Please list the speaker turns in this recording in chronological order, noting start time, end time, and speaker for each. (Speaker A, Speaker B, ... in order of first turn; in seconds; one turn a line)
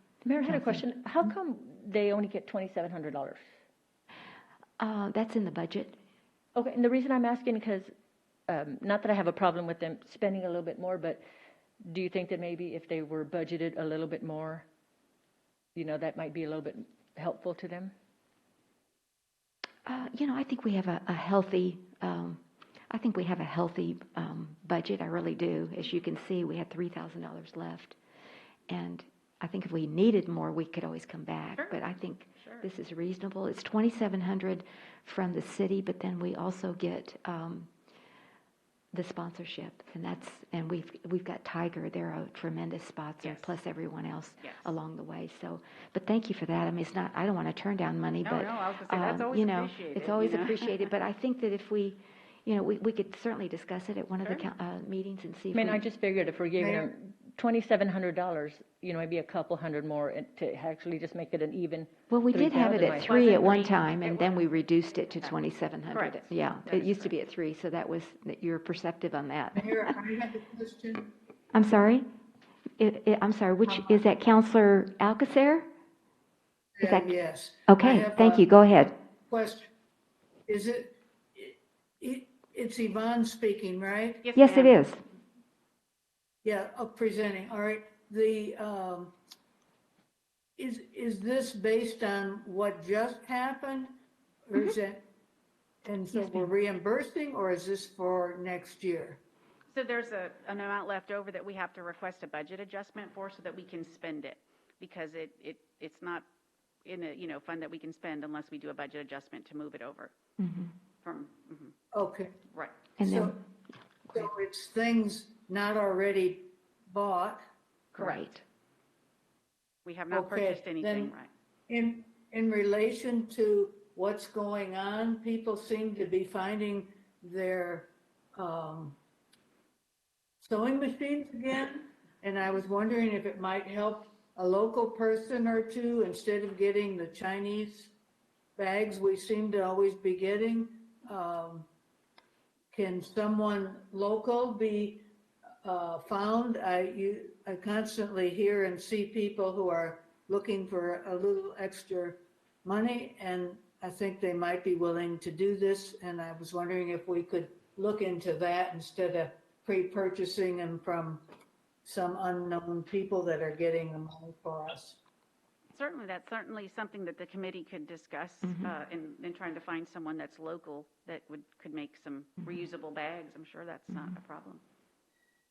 Speaker A: 0.2-3.4
Speaker B: 0.4-1.3
Speaker B: 4.8-6.0
Speaker A: 6.5-7.9
Speaker A: 8.5-11.2
Speaker A: 11.8-14.6
Speaker A: 15.8-17.9
Speaker B: 19.9-27.9
Speaker B: 28.7-37.7
Speaker C: 32.4-32.7
Speaker B: 38.9-55.8
Speaker C: 43.2-43.5
Speaker C: 44.4-44.8
Speaker C: 48.2-50.9
Speaker C: 54.2-54.5
Speaker A: 55.5-63.2
Speaker D: 56.6-56.9
Speaker B: 62.1-70.0
Speaker C: 62.8-64.4
Speaker C: 65.9-67.2
Speaker D: 69.5-71.1
Speaker B: 71.5-72.0
Speaker B: 72.8-75.7
Speaker D: 73.7-74.0
Speaker D: 76.8-79.7
Speaker B: 76.8-77.1
Speaker B: 77.7-78.9
Speaker D: 80.5-84.2
Speaker C: 84.2-84.8
Speaker B: 84.3-85.0
Speaker D: 86.4-89.1
Speaker D: 90.6-93.9
Speaker D: 94.5-95.0
Speaker D: 95.8-99.2
Speaker B: 96.1-96.5
Speaker C: 99.7-106.3
Speaker C: 106.8-110.1
Speaker B: 110.4-110.7
Speaker C: 111.0-111.7
Speaker D: 111.9-112.3
Speaker C: 112.5-112.8
Speaker B: 113.0-113.4
Speaker D: 113.0-113.4
Speaker D: 114.1-117.4
Speaker B: 117.9-118.4
Speaker C: 118.0-118.2
Speaker C: 119.8-121.3
Speaker D: 120.1-121.2
Speaker D: 121.7-129.0
Speaker D: 130.4-137.9
Speaker D: 138.6-141.7
Speaker D: 142.7-145.0
Speaker D: 145.6-161.2
Speaker D: 161.8-165.0
Speaker C: 165.7-174.6
Speaker B: 168.4-168.7